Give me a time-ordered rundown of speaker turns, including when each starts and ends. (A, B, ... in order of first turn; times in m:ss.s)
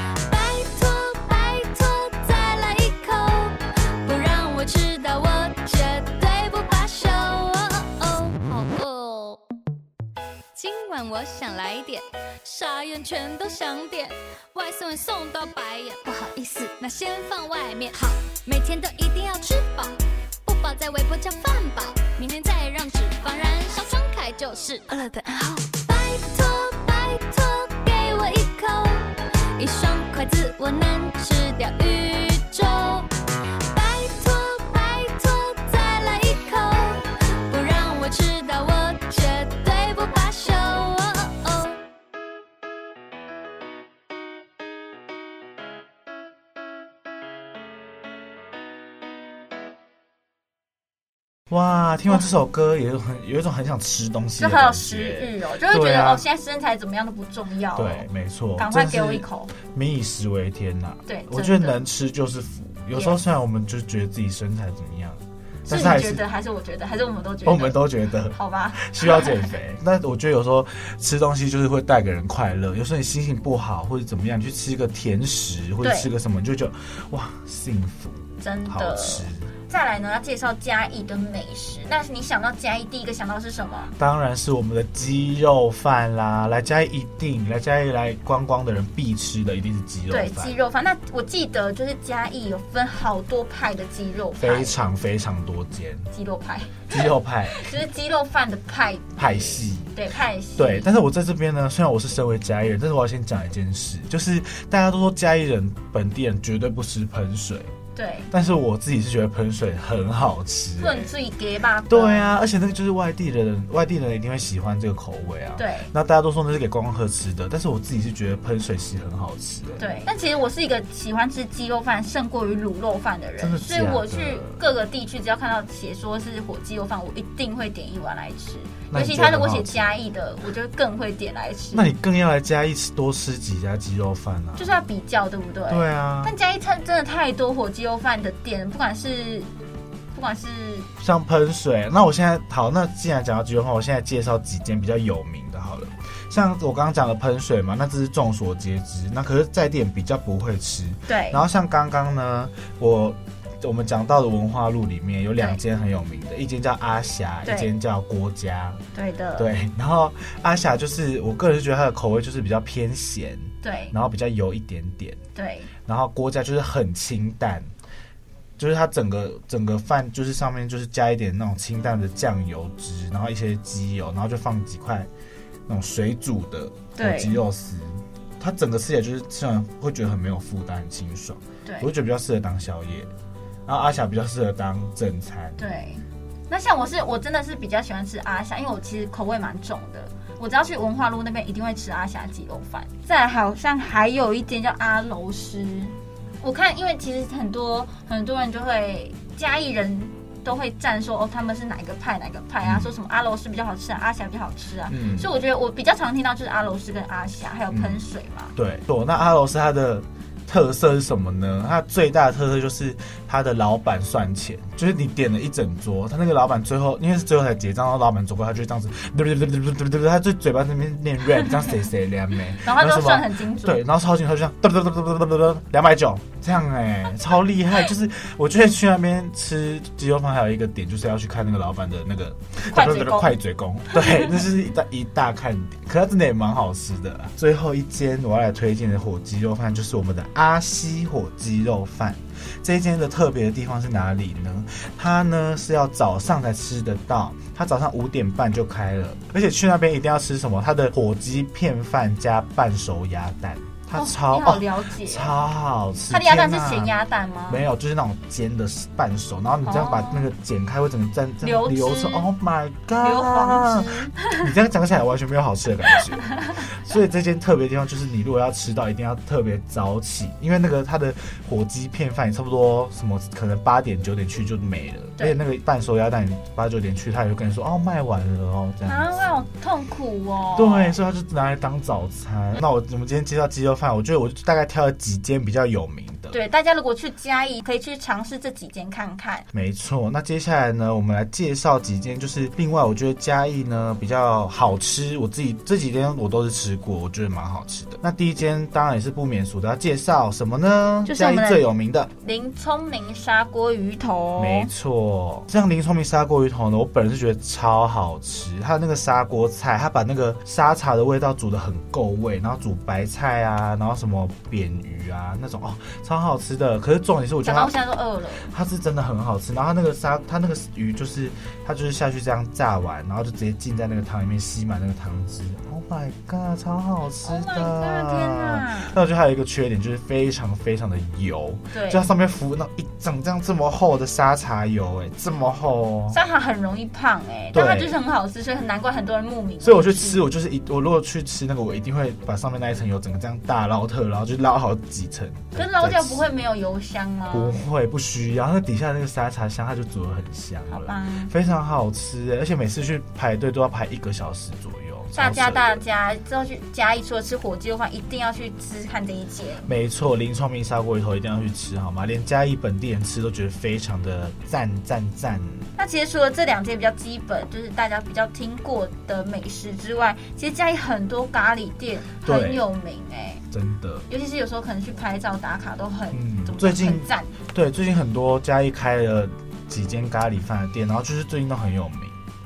0:00.3-0:09.4 A
0:08.5-0:09.1 B
0:10.6-0:19.9 A
0:13.8-0:14.1 B
0:14.6-0:18.6 B
0:19.4-0:19.9 B
0:20.5-0:29.1 A
0:20.5-0:26.0 B
0:28.0-0:28.5 B
0:29.6-0:33.0 A
0:29.6-0:31.0 B
0:33.7-0:41.8 A
0:40.0-0:40.9 B
0:51.5-0:56.2 C
0:54.4-0:59.5 B
0:57.8-1:06.2 C
1:01.1-1:01.8 B
1:02.9-1:03.2 B
1:05.7-1:09.5 B
1:07.4-1:19.5 C
1:15.8-1:16.1 B
1:18.4-1:23.9 B
1:24.0-1:30.6 C
1:30.1-1:34.8 B
1:34.4-1:36.1 C
1:36.1-1:40.9 B
1:36.9-1:37.8 C
1:39.2-1:39.9 C
1:40.6-1:47.7 C
1:48.0-1:48.3 B
1:48.3-1:51.1 C
1:50.8-1:52.3 B
1:51.9-2:00.0 C
1:55.6-1:55.9 B
1:59.8-2:11.9 B
2:03.4-2:04.6 C
2:08.9-2:09.9 C
2:11.7-2:14.7 C
2:14.6-2:19.5 B
2:15.7-2:16.3 C
2:20.1-2:20.9 B
2:21.0-2:38.8 C
2:31.1-2:31.4 B
2:37.4-2:37.7 B
2:39.0-2:39.5 B
2:39.4-2:45.2 C
2:43.6-2:44.0 B
2:45.4-2:45.7 B
2:45.8-2:47.7 C
2:48.6-2:55.1 C
2:55.7-3:03.1 C
2:57.0-2:57.4 B
3:01.6-3:01.9 B
3:03.7-3:05.7 C
3:05.6-3:28.5 B
3:22.6-3:22.9 C
3:24.9-3:25.3 C
3:27.7-3:28.0 C
3:28.6-4:16.9 C
3:42.6-3:43.8 B
3:52.7-3:53.4 B
3:53.9-3:54.4 B
4:14.0-4:15.4 B
4:16.1-4:17.6 B
4:17.5-4:39.4 C
4:19.6-4:20.3 B
4:21.4-4:22.3 B
4:23.0-4:24.4 B
4:38.8-4:41.0 B
4:40.6-4:46.4 C
4:46.3-4:49.5 B
4:49.5-5:02.1 C
5:01.0-5:01.6 B
5:02.2-5:04.7 B
5:04.4-5:17.8 C
5:17.4-5:18.5 B
5:18.5-5:36.2 C
5:27.2-5:29.0 B
5:31.7-5:32.1 B
5:36.1-5:40.2 B
5:37.5-5:38.0 C
5:39.6-5:46.3 C
5:45.6-5:47.6 B
5:47.3-5:55.8 C
5:50.7-5:51.3 B
5:55.1-5:59.7 B
5:59.7-6:05.7 C
6:05.8-6:13.4 B
6:12.2-6:12.7 C
6:13.5-6:14.1 C
6:14.1-6:17.4 B
6:16.1-6:22.2 C